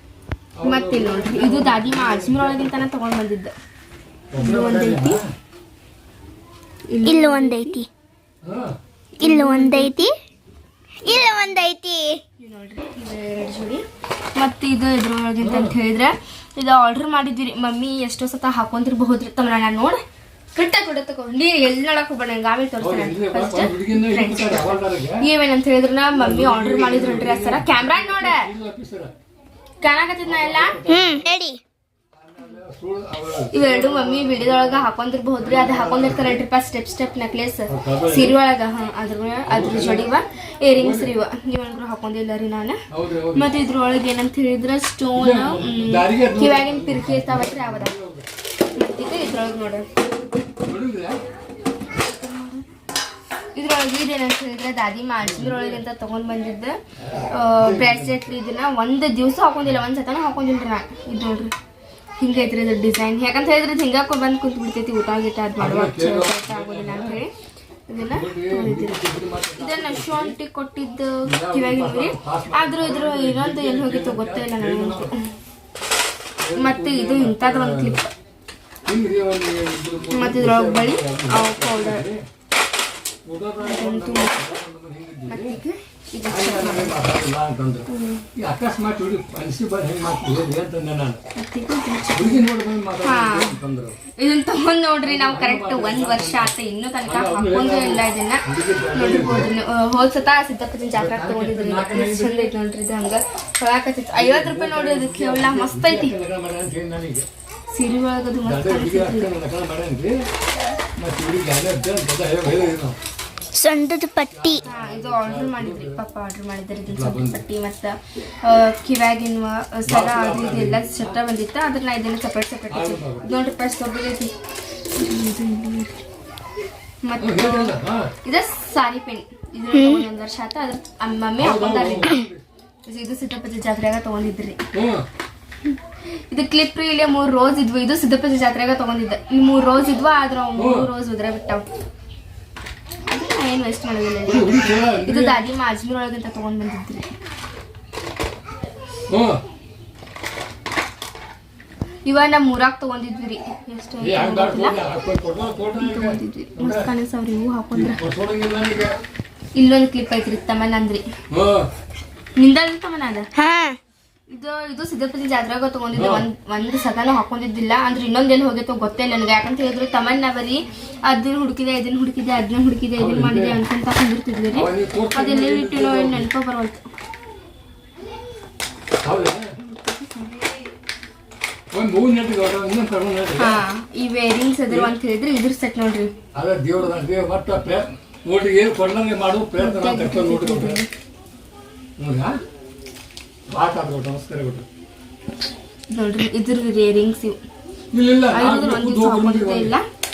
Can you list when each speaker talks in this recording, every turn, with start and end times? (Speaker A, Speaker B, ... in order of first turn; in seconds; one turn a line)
Speaker A: 0.6-2.9
Speaker B: 0.6-3.5
Speaker A: 4.3-5.3
Speaker B: 4.3-5.2
Speaker B: 6.9-7.8
Speaker C: 7.0-7.9
Speaker A: 8.4-8.8
Speaker B: 9.2-10.0
Speaker C: 9.2-10.1
Speaker C: 11.0-12.2
Speaker B: 11.0-11.5
Speaker B: 12.4-13.8
Speaker B: 14.4-20.0
Speaker A: 15.4-15.8
Speaker B: 20.5-28.5
Speaker A: 22.8-25.2
Speaker A: 26.2-29.1
Speaker B: 29.8-30.8
Speaker A: 30.2-31.3
Speaker C: 30.9-31.6
Speaker A: 32.2-36.4
Speaker B: 33.5-42.8
Speaker A: 37.7-38.4
Speaker A: 39.5-40.1
Speaker A: 40.7-41.1
Speaker A: 42.9-43.5
Speaker B: 43.3-47.9
Speaker A: 45.1-48.3
Speaker B: 48.8-49.9
Speaker A: 50.6-51.2
Speaker B: 52.0-52.7
Speaker B: 53.5-56.8
Speaker A: 55.2-55.8
Speaker A: 57.0-58.3
Speaker B: 57.3-61.5
Speaker B: 62.2-67.3
Speaker A: 65.6-67.2
Speaker B: 67.9-69.0
Speaker A: 68.1-70.4
Speaker B: 69.5-75.3
Speaker A: 71.2-75.1
Speaker A: 76.4-78.0
Speaker B: 76.5-78.1
Speaker A: 78.8-82.2
Speaker B: 80.1-82.1
Speaker A: 83.2-85.6
Speaker B: 83.6-84.4
Speaker B: 85.2-87.0
Speaker A: 86.3-91.2
Speaker B: 87.9-88.2
Speaker B: 91.3-92.5
Speaker A: 92.1-94.0
Speaker B: 93.0-93.6
Speaker B: 94.2-106.2
Speaker A: 95.0-96.5
Speaker A: 97.0-99.5
Speaker A: 100.9-102.5
Speaker A: 104.1-107.3
Speaker B: 107.7-109.3
Speaker A: 108.4-110.2
Speaker A: 111.0-113.0
Speaker C: 113.5-114.6
Speaker A: 114.3-116.0
Speaker B: 114.6-124.3
Speaker A: 116.9-117.4
Speaker A: 119.8-121.2
Speaker A: 122.7-123.2
Speaker B: 124.9-125.9
Speaker B: 127.0-132.2
Speaker A: 127.2-128.1
Speaker C: 129.7-130.0
Speaker A: 131.4-132.4
Speaker B: 132.8-134.6
Speaker A: 134.7-135.1
Speaker B: 136.3-141.6
Speaker A: 140.6-140.9
Speaker B: 143.1-147.1
Speaker A: 144.2-145.4
Speaker A: 149.1-149.4
Speaker B: 152.1-154.8
Speaker A: 154.0-156.9
Speaker B: 155.8-158.0
Speaker A: 157.7-158.9
Speaker B: 159.6-161.0
Speaker A: 161.3-161.7
Speaker B: 162.4-163.3
Speaker C: 163.3-163.8
Speaker B: 164.3-176.8
Speaker A: 165.9-166.2
Speaker A: 173.0-173.6
Speaker A: 174.5-176.3
Speaker A: 179.0-179.5
Speaker B: 179.6-180.5
Speaker A: 181.7-183.6
Speaker B: 183.4-186.1
Speaker A: 184.7-184.9
Speaker A: 186.3-190.8
Speaker B: 189.6-190.9
Speaker A: 192.0-192.4
Speaker A: 193.5-194.7
Speaker B: 195.9-197.4
Speaker A: 197.9-199.7
Speaker B: 198.3-199.8